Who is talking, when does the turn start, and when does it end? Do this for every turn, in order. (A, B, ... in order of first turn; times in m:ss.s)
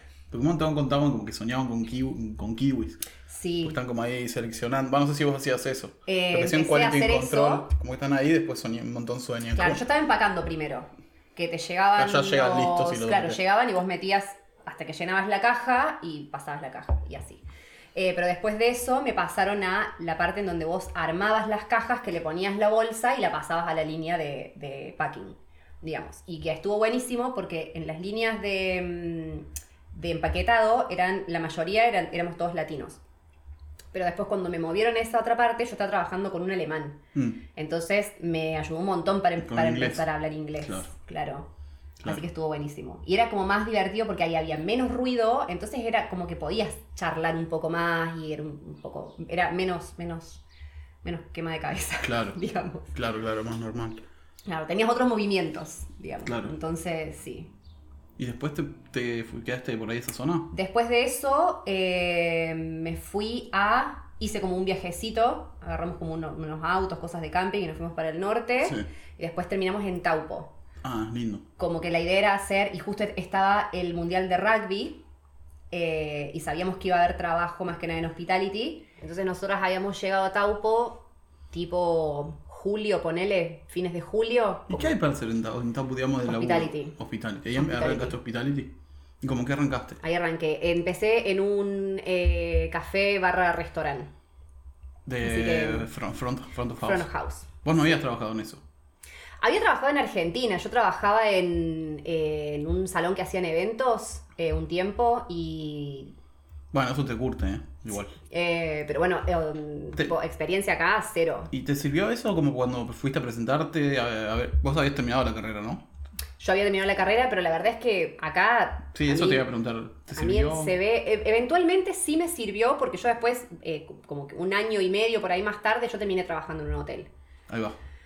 0:00.3-0:03.0 A
0:03.3-0:03.8 B
0:03.6-0:09.8 A
0:06.1-0:07.7 B
0:09.6-0:17.4 B
0:12.0-0:13.4 A
0:18.0-0:33.0 B
0:33.9-0:41.5 B
0:37.2-0:37.4 A
0:39.4-0:40.1 A
0:40.6-0:40.9 A
0:42.0-0:42.2 A
0:42.0-0:50.4 B
0:51.0-0:52.9 B
0:52.0-0:52.4 A
0:52.9-0:54.0 A
0:54.5-0:57.5 B
0:56.2-0:56.5 A
0:58.2-1:00.5 A
1:00.5-1:10.5 B
1:08.6-1:08.9 A
1:10.8-1:11.4 A
1:11.6-1:15.0 B
1:15.7-1:24.9 B
1:24.7-1:30.0 A
1:26.2-1:27.0 B
1:27.5-1:28.2 B
1:30.0-1:34.1 B
1:35.1-1:37.1 A
1:35.2-1:35.9 B
1:36.8-1:37.5 B
1:37.6-1:38.6 A
1:39.4-1:46.1 B
1:46.7-1:48.2 A
1:48.3-1:51.5 B
1:51.5-1:55.9 A
1:56.4-1:59.4 B
1:58.9-2:00.8 A
2:00.1-2:07.1 B
2:07.5-2:07.8 A